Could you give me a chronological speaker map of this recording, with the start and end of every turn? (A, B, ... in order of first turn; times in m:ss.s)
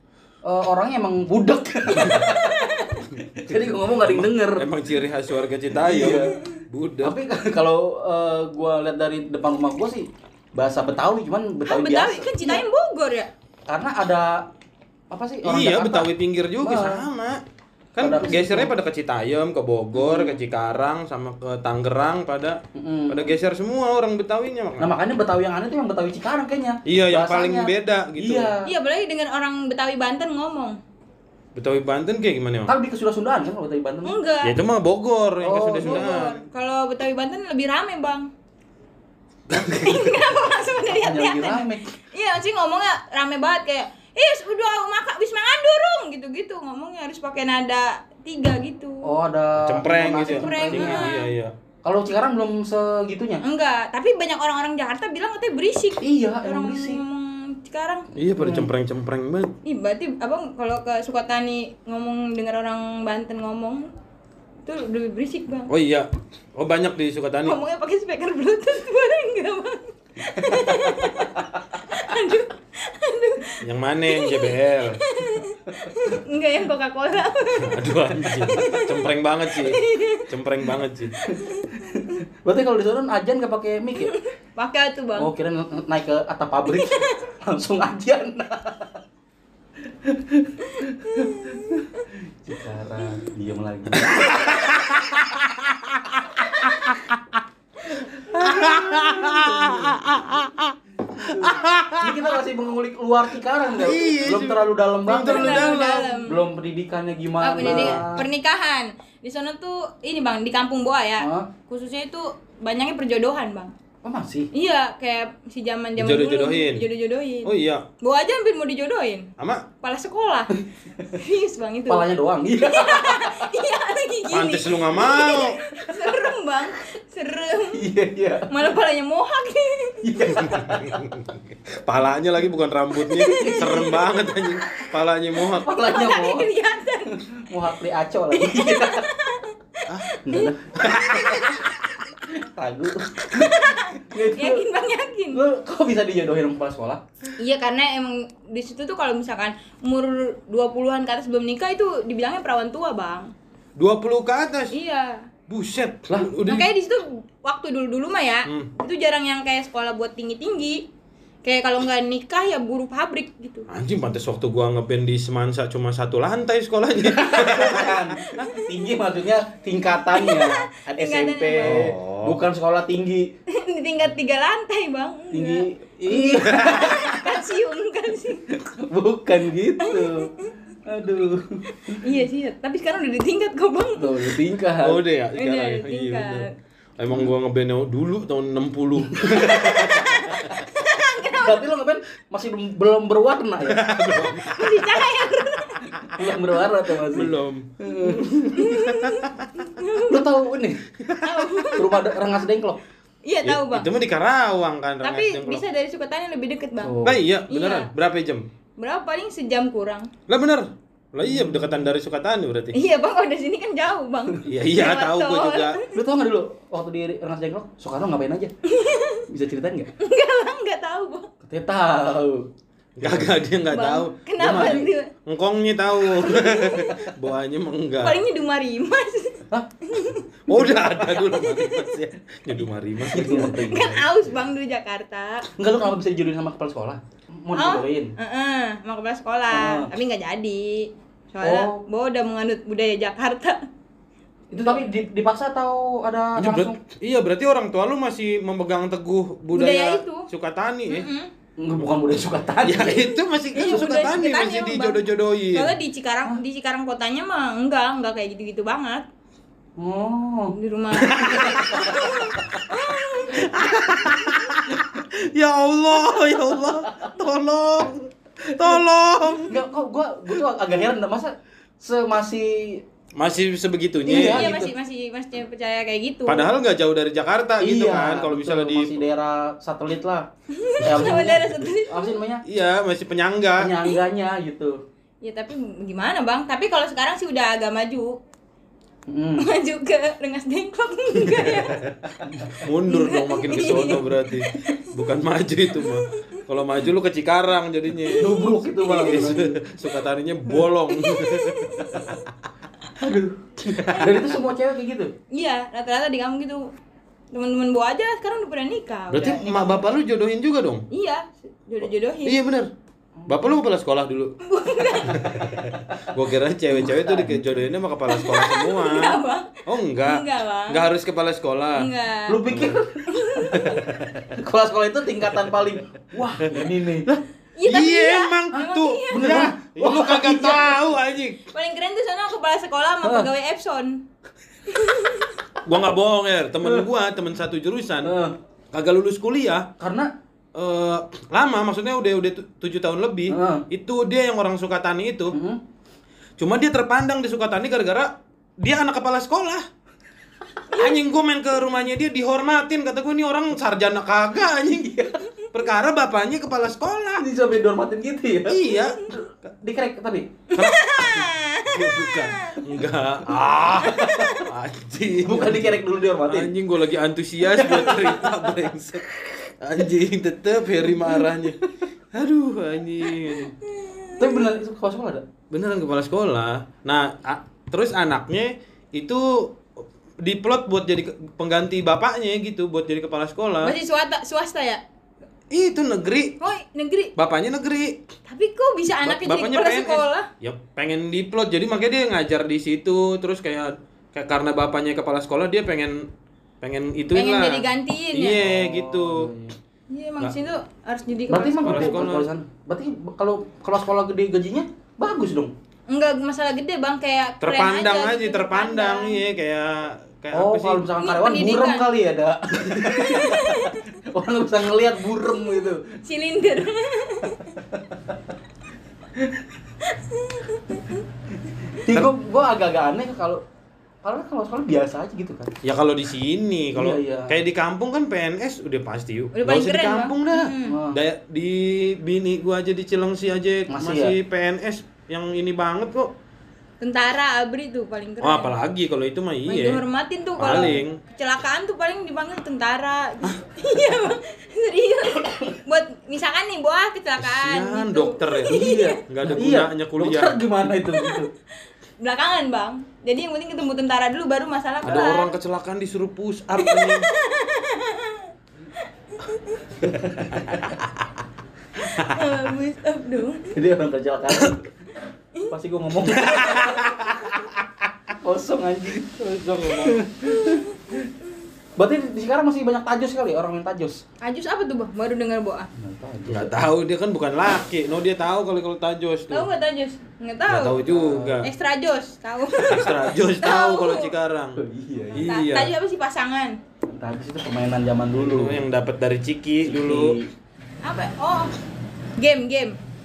0:00.4-0:04.7 A
0:02.0-0:02.3 B
0:03.1-0:07.2 B
0:05.7-0:06.4 A
0:07.0-0:12.6 A
0:11.6-0:13.3 C
0:13.7-0:14.5 A
0:15.1-0:16.1 A
0:15.4-0:17.4 B
0:16.6-0:17.1 A
0:17.9-0:24.9 B
0:18.0-0:18.7 A
0:19.9-0:20.4 A
0:22.7-0:23.2 A
0:24.8-0:28.7 A
0:26.8-0:28.5 B
0:28.6-0:30.8 C
0:31.5-0:32.7 B
0:32.7-0:34.2 A
0:34.0-0:34.5 C
0:34.4-0:36.3 B
0:35.4-0:36.1 A
0:35.8-0:38.3 C
0:39.5-0:40.0 B
0:39.6-0:49.1 C
0:40.9-0:41.9 A
0:49.0-0:51.1 A
0:49.6-0:51.5 B
0:50.3-0:51.3 C
0:51.8-0:53.4 A
0:53.4-0:58.1 C
0:56.0-0:57.0 A
0:58.2-0:59.5 B
0:58.4-0:58.7 A
0:59.6-1:03.9 C
1:04.6-1:05.7 C
1:05.7-1:07.6 B
1:07.4-1:20.3 C
1:13.6-1:15.0 B
1:17.6-1:21.1 B
1:21.2-1:22.0 C
1:21.8-1:24.1 A
1:24.0-1:25.3 C
1:25.2-1:29.0 A
1:26.7-1:27.2 C
1:29.8-1:34.5 A
1:30.7-1:31.8 C
1:34.0-1:37.2 B
1:38.1-1:40.1 A
1:38.3-1:42.4 B
1:41.2-1:48.3 A
1:43.7-1:46.2 B
1:45.1-1:46.4 C
1:47.4-1:53.7 C
1:47.6-1:48.0 B
1:51.2-1:51.5 A
1:54.0-1:54.5 A
1:54.5-1:59.3 C
1:56.0-1:56.8 B
1:57.4-1:57.8 B
1:59.4-1:59.6 B
1:59.8-2:00.6 C
2:00.8-2:01.1 A
2:01.1-2:07.8 C
2:01.9-2:03.5 A
2:04.3-2:05.6 B
2:05.9-2:06.2 A
2:07.7-2:08.5 A
2:08.5-2:10.1 C
2:10.0-2:11.0 A
2:10.4-2:15.7 B
2:13.0-2:14.0 C
2:13.2-2:14.0 A
2:15.5-2:16.5 A
2:15.8-2:17.2 C
2:17.1-2:19.1 A
2:18.3-2:21.8 C
2:20.2-2:21.2 A
2:20.8-2:21.4 B
2:22.3-2:24.7 A
2:23.3-2:25.4 C
2:25.3-2:27.0 A
2:27.4-2:33.3 C
2:33.8-2:34.7 B
2:34.7-2:35.3 C
2:35.5-2:36.7 B
2:36.4-2:40.8 C
2:38.4-2:38.7 B
2:41.4-2:43.7 C
2:43.7-2:48.1 B
2:47.0-2:53.3 A
2:48.2-2:48.9 C
2:50.1-2:51.8 C
2:51.6-2:52.4 B
2:53.5-2:58.5 C
2:55.3-2:57.4 A
2:56.5-2:56.9 B
2:58.5-3:00.3 A
2:59.8-3:00.6 C
3:00.8-3:02.0 A
3:01.7-3:04.3 C
3:04.0-3:05.0 A
3:04.8-3:06.5 B
3:05.4-3:06.5 C
3:07.0-3:10.5 B
3:09.1-3:10.2 A
3:09.5-3:11.6 C
3:11.3-3:13.8 A
3:13.6-3:15.1 B
3:14.5-3:16.1 C
3:16.0-3:18.6 A
3:17.1-3:19.5 B
3:18.0-3:20.2 C
3:20.0-3:20.8 A
3:21.0-3:21.7 B
3:21.2-3:22.1 C
3:21.7-3:22.8 A
3:23.2-3:23.9 C
3:23.4-3:25.6 B
3:25.0-3:27.0 C
3:26.8-3:27.2 A
3:27.0-3:28.4 B
3:27.5-3:27.9 C
3:28.8-3:30.1 C
3:30.3-3:32.8 B
3:31.2-3:31.9 A
3:32.7-3:36.0 C
3:34.4-3:35.8 B
3:35.9-3:38.5 A
3:38.7-3:39.2 C
3:39.3-3:39.9 A
3:40.0-3:41.3 C
3:41.4-3:42.5 A
3:43.0-3:48.2 B
3:43.0-3:43.4 A
3:43.7-3:45.1 C
3:44.4-3:44.9 A
3:46.1-3:47.0 C
3:48.0-3:50.3 C
3:50.5-3:53.7 B
3:51.5-3:51.8 C
3:53.0-3:54.2 A
3:53.6-3:55.5 C
3:55.6-3:58.1 A
3:57.5-4:03.6 C
3:59.5-3:59.9 A
4:01.4-4:01.8 A
4:04.5-4:06.8 A
4:04.5-4:04.8 C
4:06.4-4:11.1 B
4:09.5-4:10.3 C
4:10.9-4:11.3 C
4:11.6-4:13.1 A
4:12.6-4:15.7 B
4:13.5-4:15.0 C
4:15.5-4:19.0 C
4:19.8-4:20.5 A
4:20.5-4:24.5 C
4:21.0-4:22.1 B
4:21.5-4:21.9 A
4:23.3-4:29.6 B
4:29.4-4:32.8 A
4:33.2-4:34.5 B
4:34.0-4:34.7 A
4:34.1-4:36.5 C
4:36.2-4:39.0 B
4:37.6-4:40.3 A
4:40.5-4:42.2 C
4:40.8-4:42.4 A
4:42.4-4:43.8 B
4:43.6-4:44.8 A
4:45.2-4:48.2 C
4:49.1-4:49.5 A
4:49.4-4:51.9 C
4:51.2-5:02.3 B
4:52.2-4:52.5 A
4:52.9-4:54.8 C
4:58.0-4:59.3 C
4:58.1-4:59.6 A
5:00.9-5:02.2 C
5:03.0-5:05.1 A
5:03.7-5:04.2 B
5:05.3-5:06.7 C
5:07.3-5:09.9 C
5:09.1-5:10.9 B
5:10.9-5:12.4 C
5:12.2-5:12.7 B
5:13.2-5:13.6 A
5:13.3-5:14.4 B
5:14.4-5:15.6 C
5:15.0-5:21.9 B
5:16.7-5:17.4 A
5:18.1-5:20.8 C
5:21.8-5:22.4 C
5:22.3-5:23.8 A
5:22.4-5:22.8 B
5:23.1-5:23.8 C
5:23.5-5:24.3 B
5:24.3-5:27.2 A
5:26.4-5:31.4 B
5:27.6-5:29.4 C
5:29.1-5:30.9 A
5:31.5-5:34.0 C
5:33.0-5:33.3 A
5:34.6-5:35.4 C
5:35.6-5:38.1 B
5:38.0-5:38.4 A
5:38.7-5:39.7 B
5:39.8-5:40.1 A
5:40.5-5:45.4 B
5:43.3-5:43.6 A
5:45.3-5:45.6 A
5:46.4-5:48.1 B
5:48.6-5:49.6 B
5:50.7-5:51.0 C
5:50.7-5:57.2 B
5:54.8-5:55.2 A
5:57.2-6:00.3 A
5:58.5-5:59.5 B
6:00.5-6:02.6 C
6:00.5-6:13.6 B
6:03.9-6:04.4 A
6:05.2-6:06.5 A
6:07.5-6:08.4 A
6:13.8-6:14.3 C
6:14.2-6:15.3 A
6:15.5-6:19.6 B
6:20.2-6:23.7 B
6:23.6-6:24.8 C
6:25.5-6:26.4 B
6:26.4-6:27.1 C
6:27.2-6:28.0 B
6:28.3-6:30.3 C
6:29.0-6:36.1 B
6:36.6-6:39.3 B
6:37.1-6:38.4 C
6:38.4-6:39.5 A
6:39.9-6:42.1 C
6:41.3-6:45.5 A
6:41.6-6:42.3 B
6:45.9-6:49.2 C
6:47.4-6:50.9 B
6:50.3-6:55.8 A
6:51.0-6:51.9 C
6:52.8-6:53.9 C
6:55.5-6:57.6 C
6:57.5-6:58.2 A
6:59.2-6:59.5 A
6:59.8-7:01.0 C
7:01.8-7:03.4 A
7:04.0-7:05.5 A
7:05.6-7:16.1 B
7:06.7-7:07.4 A
7:09.3-7:10.8 C
7:10.6-7:11.0 A
7:13.7-7:14.2 A
7:16.8-7:18.5 C
7:18.2-7:19.8 B
7:19.5-7:29.0 C
7:20.4-7:21.0 B
7:25.2-7:25.5 A
7:27.2-7:30.4 B
7:28.5-7:31.3 A
7:32.0-7:35.3 C
7:34.8-7:37.0 B
7:36.6-7:39.8 C
7:39.8-7:40.8 A
7:40.2-7:40.9 B
7:41.8-7:43.6 C
7:41.9-7:42.2 B
7:43.5-7:44.7 A
7:45.5-7:46.8 A
7:46.1-7:47.6 B
7:48.1-7:51.1 A
7:49.1-7:50.0 B
7:50.2-7:50.8 C
7:51.8-7:54.0 A
7:54.2-7:55.7 C
7:55.7-7:56.6 A
7:56.3-7:59.5 B
7:59.3-8:00.8 C
8:00.5-8:01.5 B
8:00.8-8:01.4 A
8:01.4-8:04.1 C
8:02.6-8:04.6 B
8:04.6-8:05.3 A
8:05.1-8:06.6 C
8:05.1-8:05.7 B
8:06.9-8:08.6 A
8:08.2-8:10.2 B
8:09.6-8:10.3 A
8:10.8-8:11.5 C
8:12.2-8:12.8 C